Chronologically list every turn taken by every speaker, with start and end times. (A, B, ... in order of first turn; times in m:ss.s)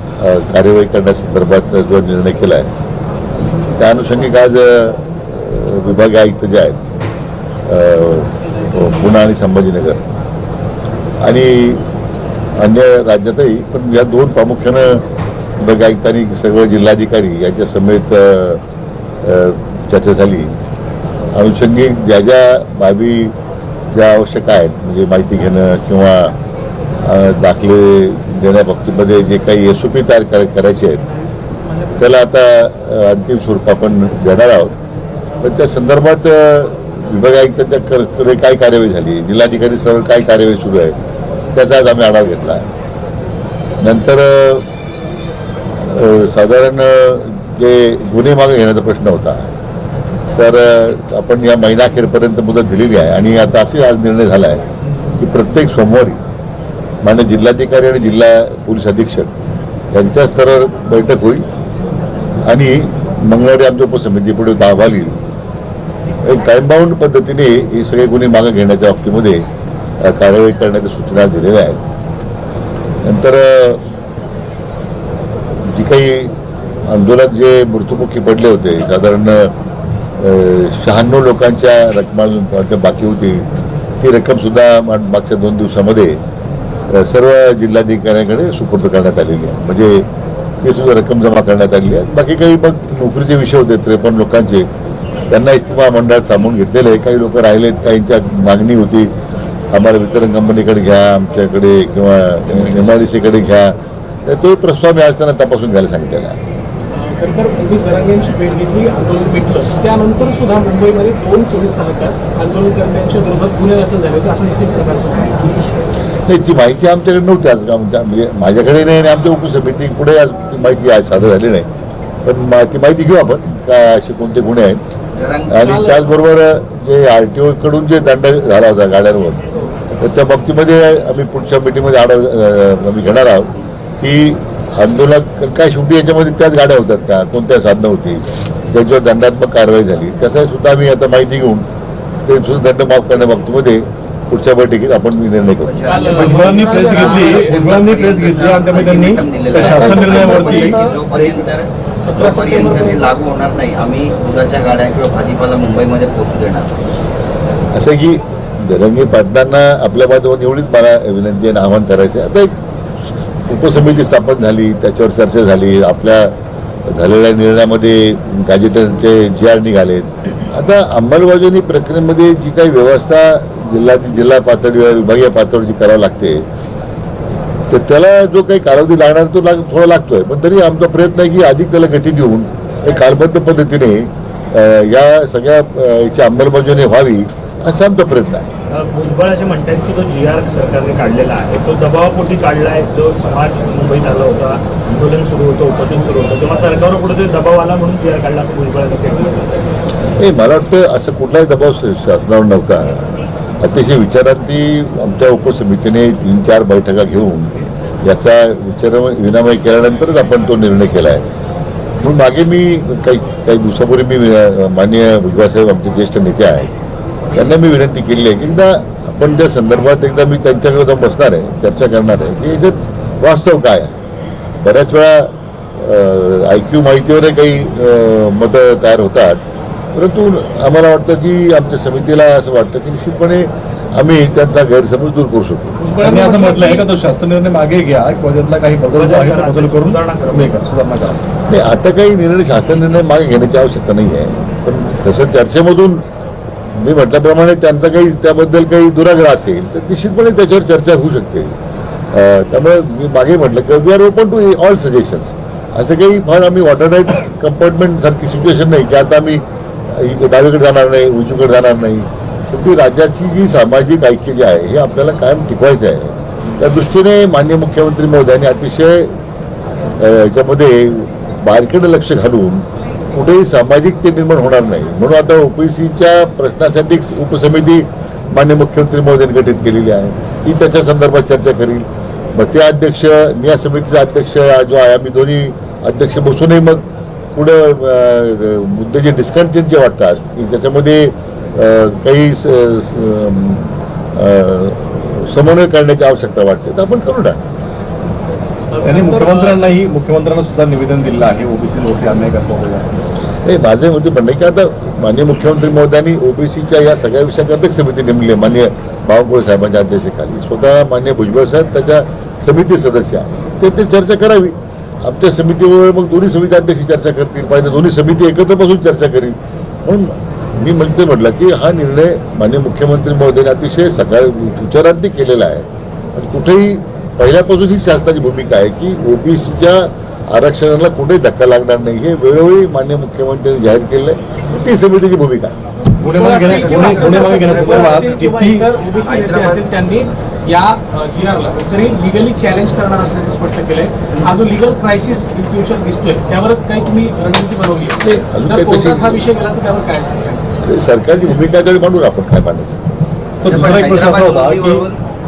0:00.2-0:02.7 A
0:03.8-0:06.9 A
0:07.6-0:10.0 A
0:11.2-0:11.9 A
0:12.6-0:15.0 A
0:15.6-0:18.6 A
0:19.2-0:20.6 A
0:21.3-0:23.3 A
0:23.9-0:26.4 A
0:27.0-0:31.0 A
0:32.0-0:34.8 A
0:35.4-0:41.0 A
0:41.5-0:42.7 A
0:43.8-0:44.7 A
0:45.8-0:49.5 A
0:50.4-0:56.2 A
0:57.0-0:59.3 A
0:59.9-1:01.4 A
1:02.4-1:05.2 A
1:06.2-1:09.4 A
1:10.0-1:11.8 A
1:13.0-1:13.8 A
1:15.6-1:16.4 A
1:16.9-1:19.5 A
1:20.2-1:23.5 A
1:24.0-1:26.2 A
1:26.9-1:30.1 A
1:30.6-1:34.7 A
1:35.3-1:39.1 A
1:39.7-1:46.4 A
1:46.9-1:55.7 B
1:56.2-2:01.7 A
2:02.2-2:04.8 A
2:05.2-2:05.9 C
2:05.5-2:21.6 A
2:05.6-2:06.0 B
2:22.2-2:25.8 A
2:25.6-2:36.7 C
2:25.8-2:27.6 B
2:26.1-2:30.9 D
2:29.6-2:31.0 B
2:32.0-2:33.1 B
2:37.7-2:42.5 A
2:43.4-2:46.3 A
2:46.9-2:56.4 A
2:57.7-3:08.5 A
3:08.7-3:19.4 E
3:20.2-3:31.2 A
3:32.0-3:36.7 A
3:37.3-3:44.0 A
3:44.6-3:49.4 A
3:49.9-3:55.8 A
3:55.8-3:56.9 B
3:56.0-4:01.2 D
3:58.9-4:00.6 E
4:01.5-4:06.0 A
4:06.8-4:11.6 A
4:12.1-4:29.1 A
4:30.0-4:57.4 A
4:58.7-4:59.6 B
4:58.8-5:03.1 D
5:03.4-5:35.5 A
5:36.0-5:38.6 D
5:36.0-5:50.4 B
5:36.4-5:38.1 C
5:39.0-5:39.6 C
5:48.0-5:49.2 A
5:50.6-5:52.8 A
5:53.4-5:54.8 D
5:53.5-5:55.0 C